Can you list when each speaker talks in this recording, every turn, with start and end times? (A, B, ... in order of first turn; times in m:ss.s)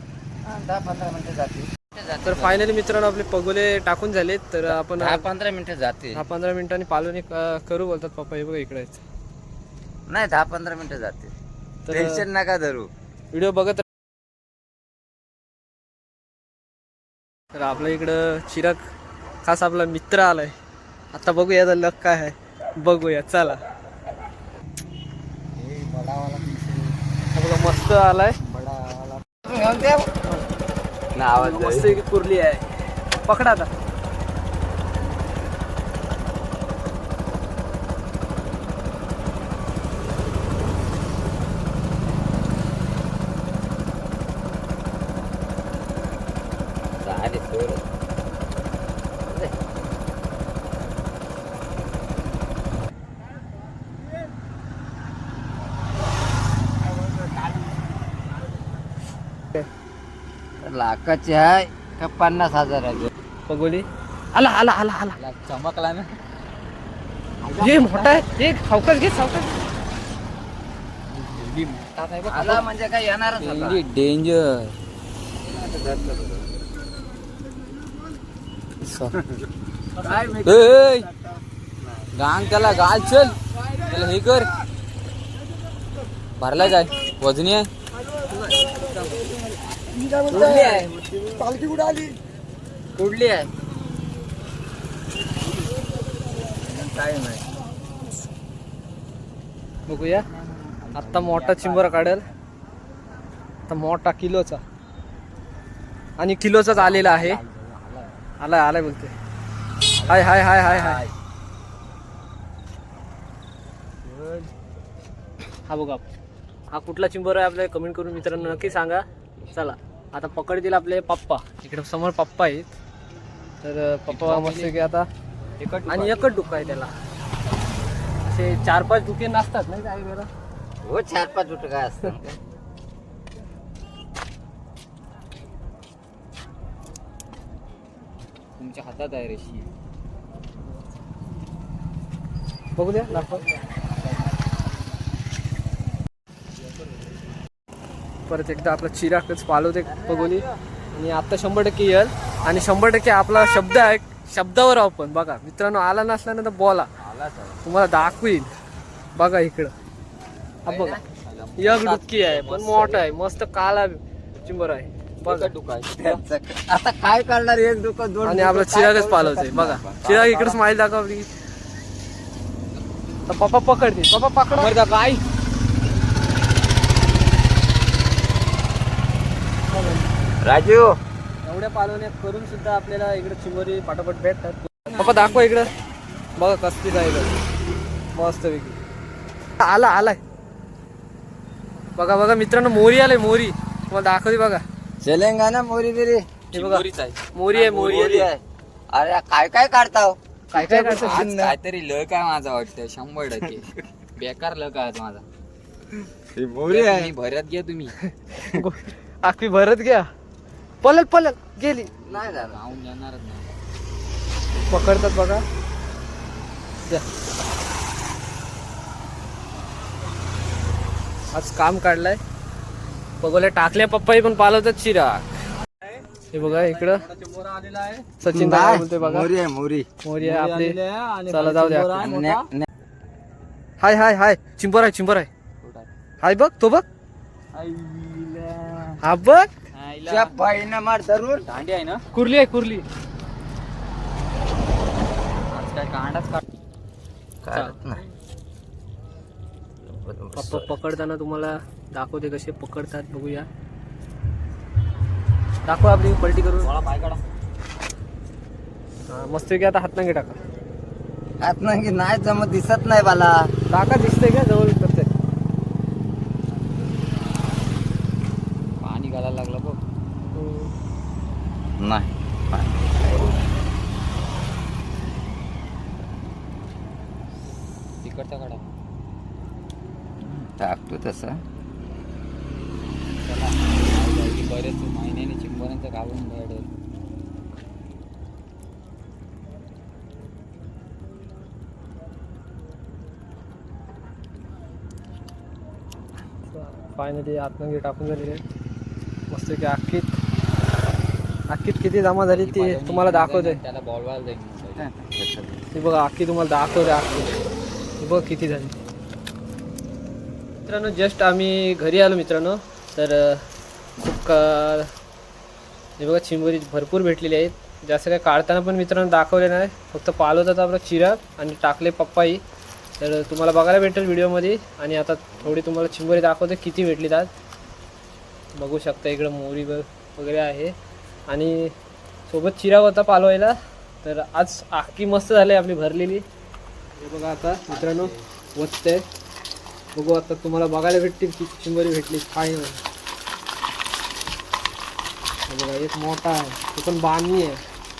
0:00.4-0:02.6 A
0:02.2-0:05.3 B
0:04.7-0:06.2 A
0:06.2-0:09.0 B
0:10.1-0:11.3 A
0:11.9-0:12.2 B
0:11.9-0:12.9 A
0:13.3-0:13.8 B
0:17.6-0:18.8 B
0:19.4-0:20.6 B
0:21.1-0:23.6 B
0:25.6-0:27.0 C
0:27.3-0:28.4 B
0:28.4-0:29.2 C
0:29.4-0:30.1 A
0:31.2-0:32.0 A
0:31.4-0:32.7 B
0:33.2-0:33.7 B
0:47.0-0:47.8 A
0:49.3-0:49.5 A
1:00.6-1:03.1 A
1:03.5-1:05.2 B
1:05.2-1:06.1 C
1:07.4-1:08.2 C
1:07.6-1:09.5 B
1:11.1-1:12.7 C
1:12.3-1:13.8 A
1:13.4-1:14.8 C
1:15.5-1:16.5 A
1:18.8-1:19.2 C
1:20.0-1:21.0 A
1:20.1-1:21.1 C
1:22.2-1:24.5 C
1:26.4-1:27.7 C
1:28.8-1:29.3 A
1:29.9-1:32.2 A
1:30.3-1:30.9 C
1:33.0-1:33.5 A
1:36.6-1:37.4 A
1:39.9-1:40.3 B
1:40.2-1:42.4 C
1:41.0-1:42.2 B
1:43.7-1:44.6 B
1:46.2-1:47.4 B
1:46.7-1:48.2 C
1:48.4-1:49.1 B
1:50.0-1:51.1 C
1:50.1-1:51.0 B
1:54.0-1:54.5 C
1:55.7-1:56.0 B
1:56.7-2:02.7 B
1:58.2-1:58.8 C
2:03.6-2:05.1 B
2:04.1-2:04.8 C
2:05.6-2:06.7 C
2:05.9-2:06.9 B
2:08.2-2:10.3 B
2:10.8-2:12.4 A
2:18.6-2:19.7 C
2:22.8-2:23.4 B
2:28.3-2:36.9 B
2:37.0-2:37.6 C
2:37.6-2:38.5 B
2:39.2-2:39.7 B
2:40.7-2:41.0 B
2:40.7-2:41.0 A
2:41.2-2:43.0 C
2:41.6-2:45.5 B
2:45.2-2:46.2 C
2:46.0-2:50.6 A
2:48.2-2:51.3 B
2:53.3-2:54.8 B
2:54.5-2:55.2 C
2:59.7-3:00.0 B
3:00.4-3:01.0 A
3:01.4-3:05.7 B
3:06.4-3:07.3 B
3:08.2-3:08.8 B
3:09.6-3:10.2 B
3:12.0-3:14.6 B
3:15.0-3:16.3 A
3:16.5-3:18.3 B
3:16.5-3:17.2 C
3:17.5-3:21.6 A
3:20.5-3:21.3 B
3:21.0-3:25.2 C
3:25.9-3:27.1 A
3:26.7-3:28.0 C
3:28.1-3:30.1 B
3:30.8-3:31.9 B
3:31.9-3:33.5 C
3:32.1-3:32.6 A
3:34.7-3:35.4 B
3:41.3-3:42.2 B
3:43.2-3:45.3 B
3:46.3-3:47.0 B
3:46.4-3:48.1 C
3:48.2-3:49.3 B
3:48.3-3:49.9 A
3:50.0-3:52.0 B
3:50.2-3:52.5 C
3:52.0-3:52.7 A
3:53.8-3:55.3 B
3:55.6-3:55.9 C
3:56.2-3:56.8 B
3:57.5-3:59.0 C
3:59.0-3:59.5 B
3:59.7-4:00.4 C
4:00.1-4:01.5 A
4:01.4-4:02.0 C
4:02.1-4:02.8 B
4:05.5-4:06.4 C
4:07.4-4:08.0 A
4:07.5-4:07.8 B
4:09.8-4:11.0 A
4:10.4-4:13.5 B
4:15.7-4:16.7 B
4:16.6-4:17.2 C
4:19.1-4:20.4 B
4:21.4-4:23.4 A
4:23.7-4:25.1 B
4:28.8-4:29.8 C
4:30.3-4:30.7 B
4:31.8-4:33.4 A
4:38.0-4:38.6 C
4:40.2-4:41.4 A
4:43.2-4:46.7 C
4:56.5-4:58.4 B
4:59.3-5:00.1 B
5:01.5-5:03.6 B
5:02.4-5:04.9 C
5:04.8-5:05.6 A
5:05.7-5:07.4 B
5:08.0-5:08.8 B
5:10.7-5:13.4 B
5:14.0-5:14.9 B
5:16.0-5:22.4 B
5:23.0-5:27.3 B
5:28.6-5:30.7 B
5:31.3-5:31.7 B
5:32.3-5:36.2 B
5:37.0-5:39.0 B
5:37.7-5:38.2 C
5:40.0-5:42.8 B
5:45.5-5:47.6 B